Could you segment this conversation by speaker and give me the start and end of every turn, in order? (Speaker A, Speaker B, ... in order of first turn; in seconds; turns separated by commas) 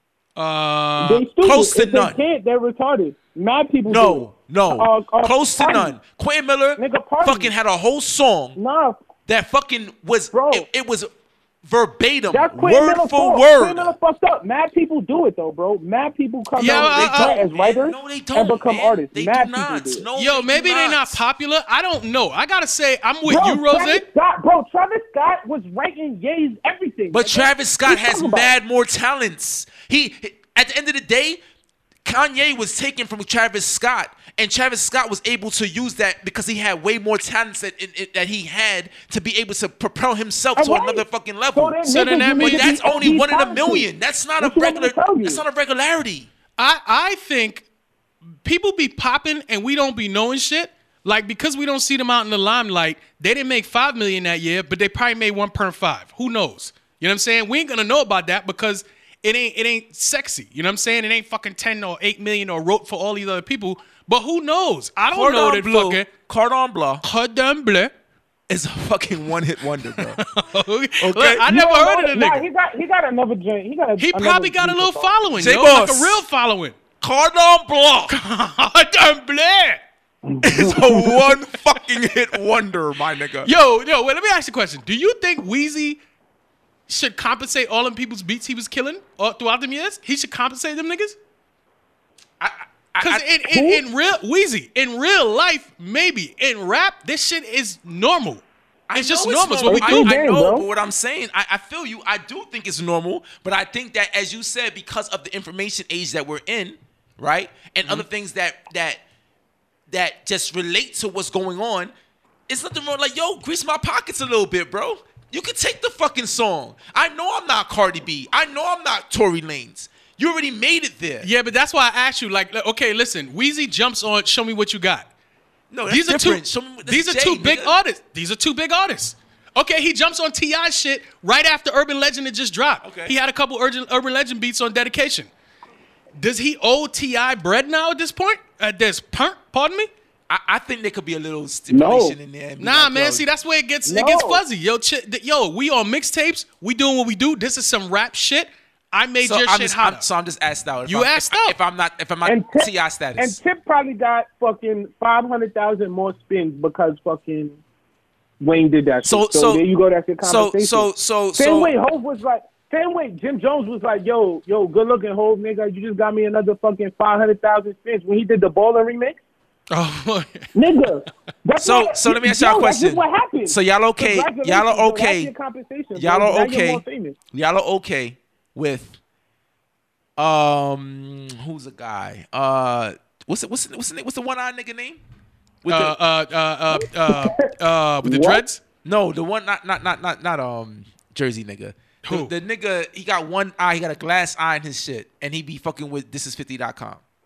Speaker A: 0.4-1.3, Speaker B: 1.0-6.0, Speaker C: 1.4-2.2, Speaker C: 3.9-8.6, Speaker B: 6.8-7.5, Speaker B: 8.6-9.0, Speaker C: 9.3-11.1, Speaker B: 10.3-10.7, Speaker C: 11.6-13.9, Speaker B: 12.3-20.1, Speaker A: 16.6-17.4, Speaker C: 16.6-21.2, Speaker A: 20.1-24.0, Speaker B: 23.3-28.5, Speaker C: 27.1-31.4, Speaker C: 32.0-41.8, Speaker B: 40.6-41.0, Speaker B: 41.5-43.9, Speaker A: 41.9-42.8, Speaker C: 42.4-46.3, Speaker B: 44.4-45.4, Speaker A: 46.6-47.6, Speaker A: 48.4-66.1, Speaker C: 65.1-67.0, Speaker A: 67.0-67.9, Speaker C: 68.5-70.2, Speaker A: 69.9-72.5, Speaker C: 71.0-71.5, Speaker B: 71.5-75.3, Speaker A: 74.0-76.8, Speaker C: 75.3-76.2, Speaker C: 77.0-78.2, Speaker A: 78.1-79.8, Speaker B: 80.2-81.1, Speaker A: 80.4-81.5, Speaker C: 80.5-83.5, Speaker A: 83.4-86.0, Speaker A: 86.9-91.2, Speaker C: 92.4-93.5, Speaker A: 93.0-98.4, Speaker B: 93.5-93.8, Speaker C: 98.9-109.0, Speaker A: 99.0-100.1, Speaker B: 99.7-100.7, Speaker C: 109.9-111.9, Speaker C: 112.5-121.3, Speaker A: 121.2-125.1, Speaker C: 125.7-127.8, Speaker A: 125.9-135.3, Speaker C: 132.8-133.2, Speaker A: 136.2-139.9, Speaker C: 140.3-143.2, Speaker B: 141.7-142.2, Speaker A: 142.6-150.1, Speaker B: 143.8-144.4, Speaker C: 149.2-153.4, Speaker A: 150.9-151.6, Speaker B: 152.2-157.6, Speaker B: 158.4-169.2, Speaker C: 159.0-159.6, Speaker C: 160.2-161.7, Speaker A: 169.7-170.5, Speaker B: 170.6-177.2, Speaker C: 171.6-175.3, Speaker C: 175.9-179.0, Speaker C: 180.2-185.0, Speaker C: 185.6-186.0, Speaker A: 185.7-188.6, Speaker B: 186.7-187.5, Speaker B: 188.0-188.4, Speaker C: 188.8-197.0, Speaker A: 192.1-192.3